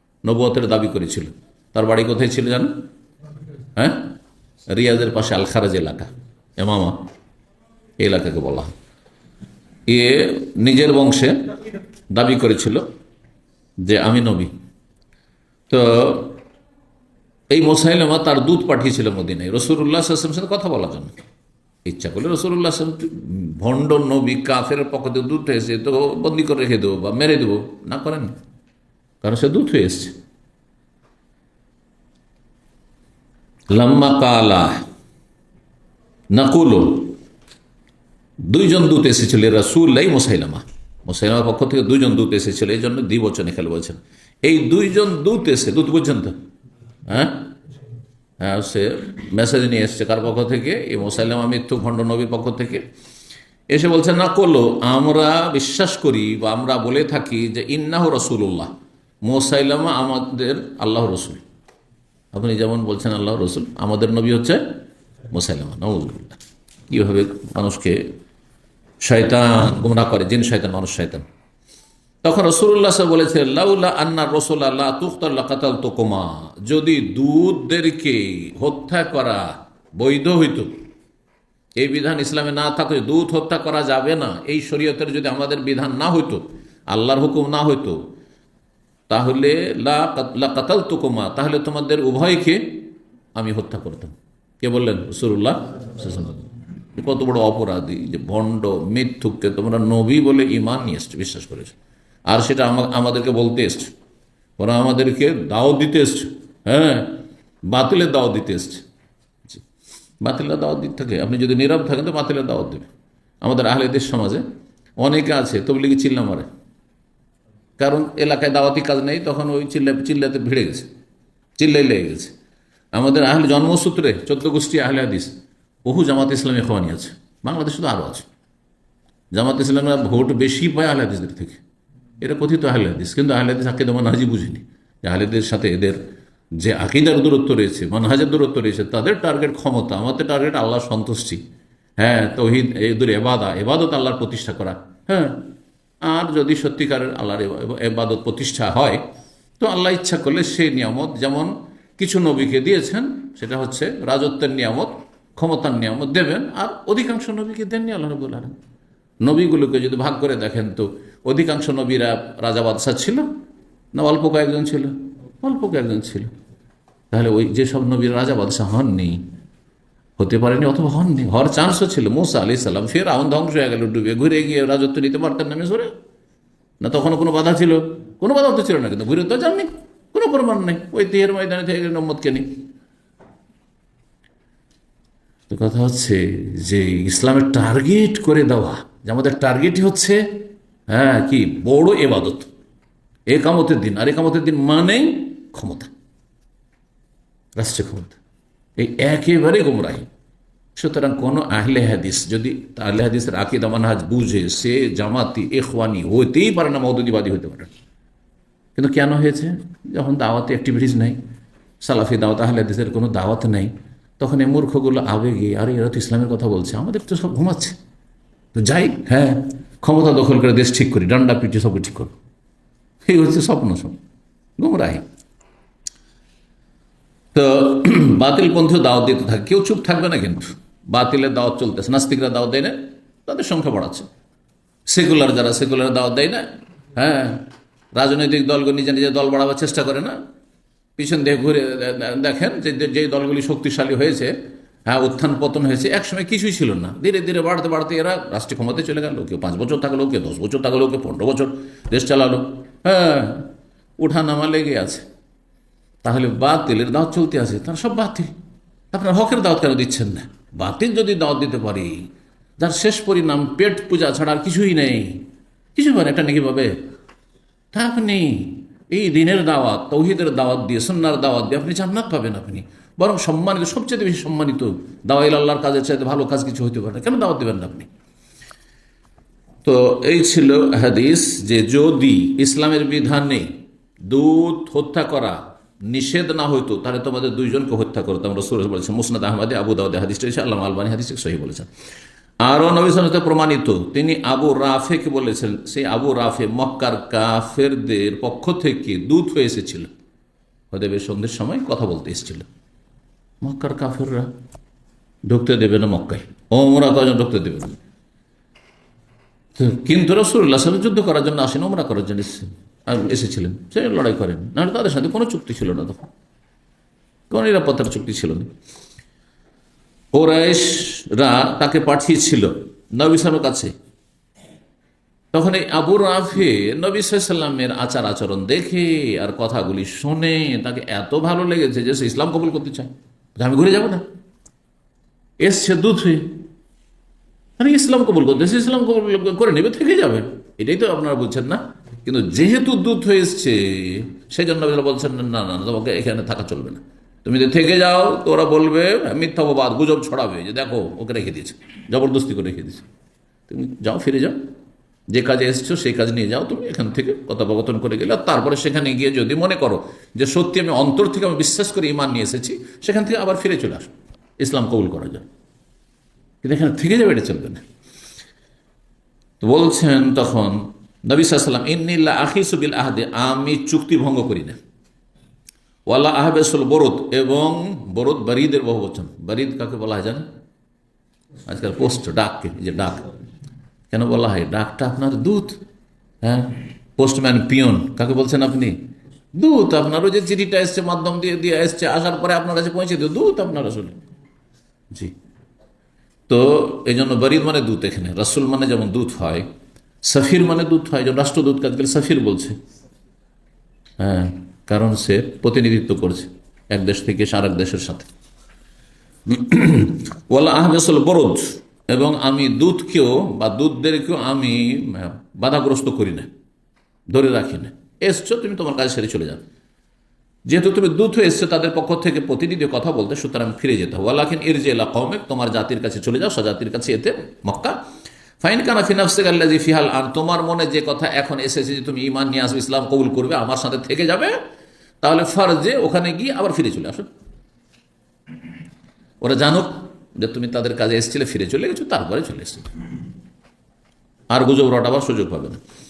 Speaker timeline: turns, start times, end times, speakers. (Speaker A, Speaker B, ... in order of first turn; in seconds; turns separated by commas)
Speaker A: 0.2-2.8, Speaker A: 3.8-4.1, Speaker A: 4.7-7.0, Speaker A: 8.0-8.7, Speaker A: 9.9-11.5, Speaker A: 12.1-12.8, Speaker A: 13.8-14.5, Speaker A: 15.7-16.4, Speaker A: 17.5-21.2, Speaker A: 21.9-28.3, Speaker A: 29.2-30.2, Speaker A: 33.7-34.8, Speaker A: 36.3-37.2, Speaker A: 38.4-46.4, Speaker A: 47.1-47.5, Speaker A: 48.4-52.8, Speaker A: 53.7-58.7, Speaker A: 59.2-61.4, Speaker A: 62.3-64.8, Speaker A: 65.3-68.0, Speaker A: 69.0-71.2, Speaker A: 72.2-80.8, Speaker A: 81.8-88.0, Speaker A: 89.1-101.8, Speaker A: 102.3-103.9, Speaker A: 104.6-108.8, Speaker A: 110.2-112.9, Speaker A: 113.4-114.4, Speaker A: 115.0-116.5, Speaker A: 117.8-120.9, Speaker A: 121.6-122.3, Speaker A: 122.9-128.3, Speaker A: 129.3-131.6, Speaker A: 132.2-136.0, Speaker A: 136.6-141.4, Speaker A: 142.0-145.4, Speaker A: 146.0-149.0, Speaker A: 149.6-158.6, Speaker A: 159.2-163.3, Speaker A: 163.9-166.3, Speaker A: 167.1-169.2, Speaker A: 170.2-175.9, Speaker A: 176.8-182.5, Speaker A: 185.5-192.5, Speaker A: 193.3-195.9, Speaker A: 197.6-198.2, Speaker A: 198.8-200.1, Speaker A: 200.8-207.7, Speaker A: 208.8-211.2, Speaker A: 211.8-217.8, Speaker A: 218.5-222.2, Speaker A: 223.1-224.0, Speaker A: 224.6-225.1, Speaker A: 227.3-234.1, Speaker A: 234.9-240.2, Speaker A: 241.0-244.3, Speaker A: 244.9-255.1, Speaker A: 256.0-258.3, Speaker A: 258.9-262.1, Speaker A: 262.6-266.8, Speaker A: 267.7-277.9, Speaker A: 279.6-291.7, Speaker A: 292.4-299.9, Speaker A: 300.7-302.5, Speaker A: 303.4-304.3, Speaker A: 305.3-307.8, Speaker A: 309.6-316.1, Speaker A: 317.3-318.5, Speaker A: 320.1-323.7, Speaker A: 325.3-334.0, Speaker A: 335.4-336.4, Speaker A: 337.6-352.9, Speaker A: 353.5-354.5, Speaker A: 355.1-365.3, Speaker A: 366.4-367.6, Speaker A: 369.4-374.6, Speaker A: 375.9-380.3, Speaker A: 381.5-383.1, Speaker A: 383.9-385.6, Speaker A: 386.2-394.0, Speaker A: 396.3-399.5, Speaker A: 400.0-402.6, Speaker A: 404.0-408.1, Speaker A: 409.3-416.3, Speaker A: 417.1-419.4, Speaker A: 420.5-427.8, Speaker A: 428.4-434.4, Speaker A: 435.0-437.1, Speaker A: 439.2-442.7, Speaker A: 444.3-445.6